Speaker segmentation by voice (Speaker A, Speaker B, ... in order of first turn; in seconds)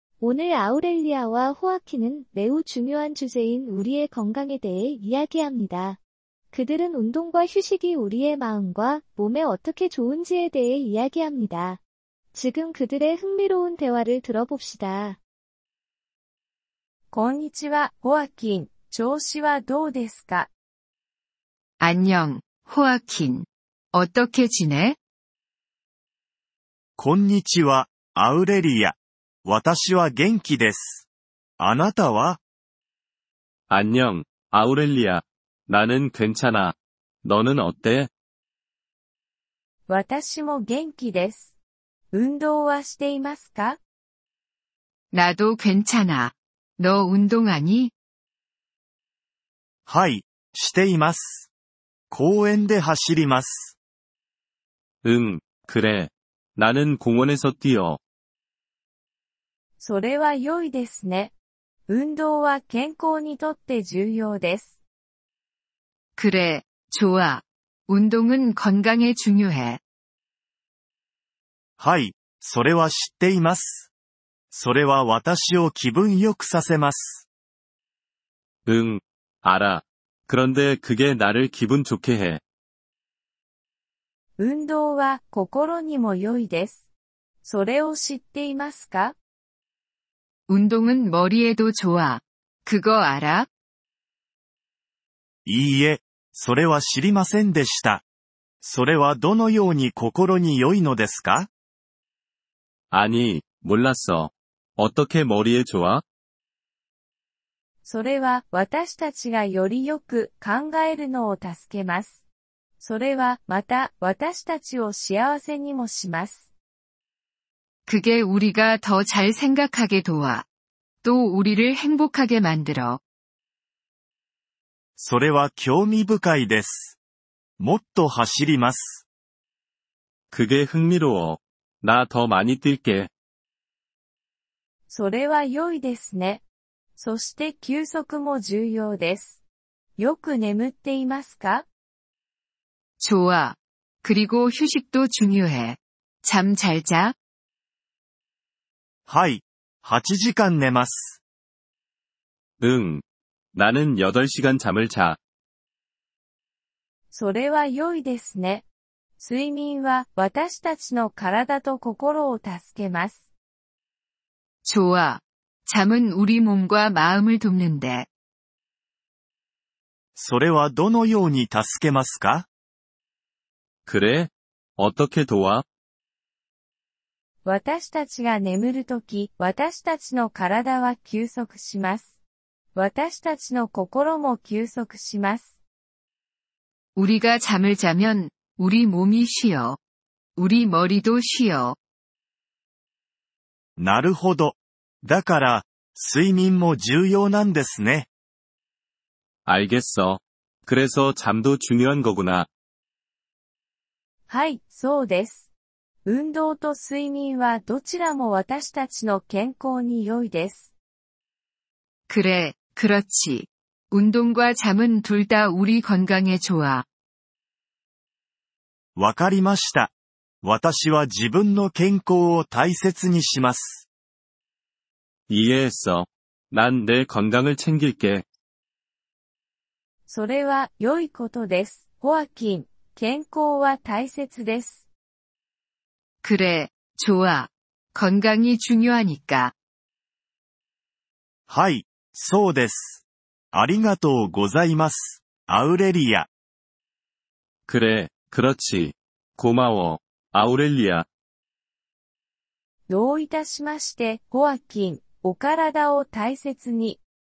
Speaker A: 0.2-6.0, 6.5-11.8, 12.3-15.2
Speaker B: 17.1-20.5, 39.9-41.5, 42.1-43.8, 59.8-61.3, 61.9-64.7, 84.4-86.8, 87.4-89.2, 107.8-112.2, 112.8-116.4, 134.9-136.4, 137.0-139.4, 140.0-141.7, 157.1-158.6, 159.2-163.2, 177.4-182.1, 182.8-185.5, 204.3-205.4, 206.1-210.6, 230.1-234.8, 252.9-257.0
Speaker C: 21.8-25.0, 45.1-47.9, 66.2-69.8, 90.5-93.5, 117.9-120.5, 121.0-123.0, 143.0-147.2, 164.6-168.1, 187.0-189.8, 190.4-191.8, 212.1-216.8, 236.2-239.5
Speaker D: 27.0-31.1, 31.6-32.4, 49.9-51.5, 52.1-53.8, 71.8-73.9, 74.5-77.3, 95.5-98.0, 98.6-101.5, 125.0-127.0, 127.6-129.0, 149.1-151.2, 170.2-172.5, 193.8-198.1, 219.0-223.9, 241.5-246.3
Speaker E: 33.7-38.1, 55.0-58.0, 78.7-82.4, 102.9-106.0, 130.3-133.1, 152.6-153.0, 153.5-155.2, 173.9-175.7, 199.4-202.5, 225.3-228.2, 247.7-251.1